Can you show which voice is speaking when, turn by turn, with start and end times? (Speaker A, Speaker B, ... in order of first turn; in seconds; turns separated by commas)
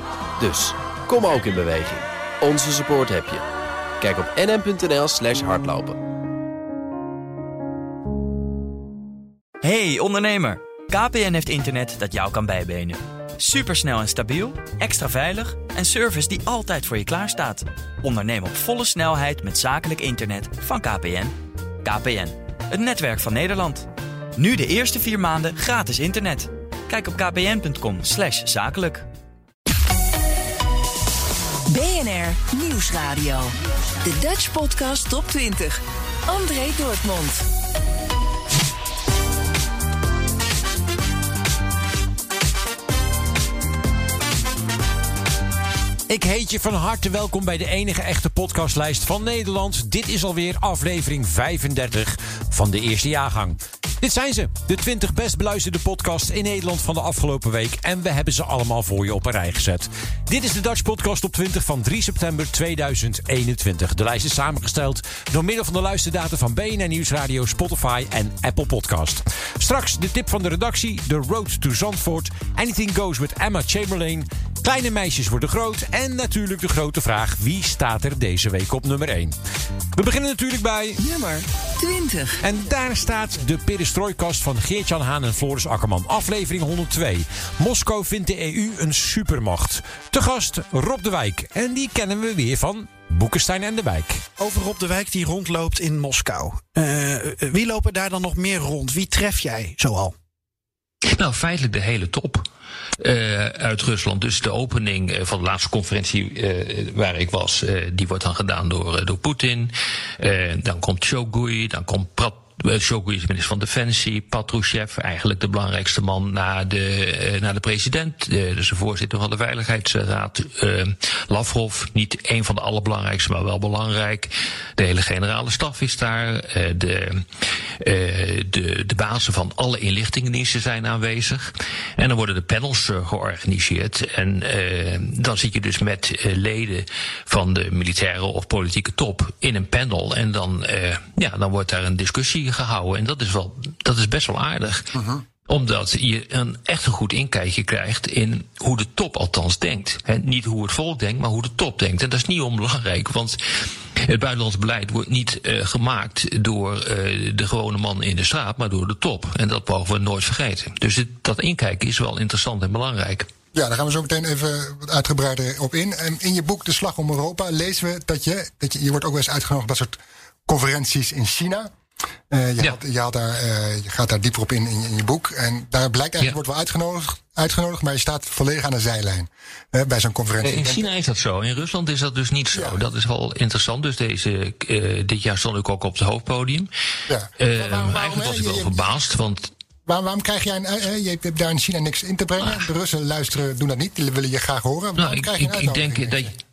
Speaker A: 0.4-3.4, Speaker A: 4.0-6.0, Speaker B: 9.6-29.1, Speaker C: 31.7-37.4, Speaker D: 46.1-79.4, Speaker D: 80.0-81.0, Speaker C: 81.0-82.4, Speaker D: 82.4-94.2, Speaker E: 94.4-100.1, Speaker F: 101.1-102.5, Speaker F: 103.0-127.3, Speaker F: 127.8-144.9, Speaker F: 145.4-153.4, Speaker F: 154.1-163.3, Speaker G: 163.6-170.0, Speaker G: 170.5-171.7, Speaker G: 172.3-180.7, Speaker F: 180.4-186.7, Speaker F: 187.4-189.5, Speaker G: 187.8-188.9, Speaker G: 189.9-196.1, Speaker F: 195.0-196.3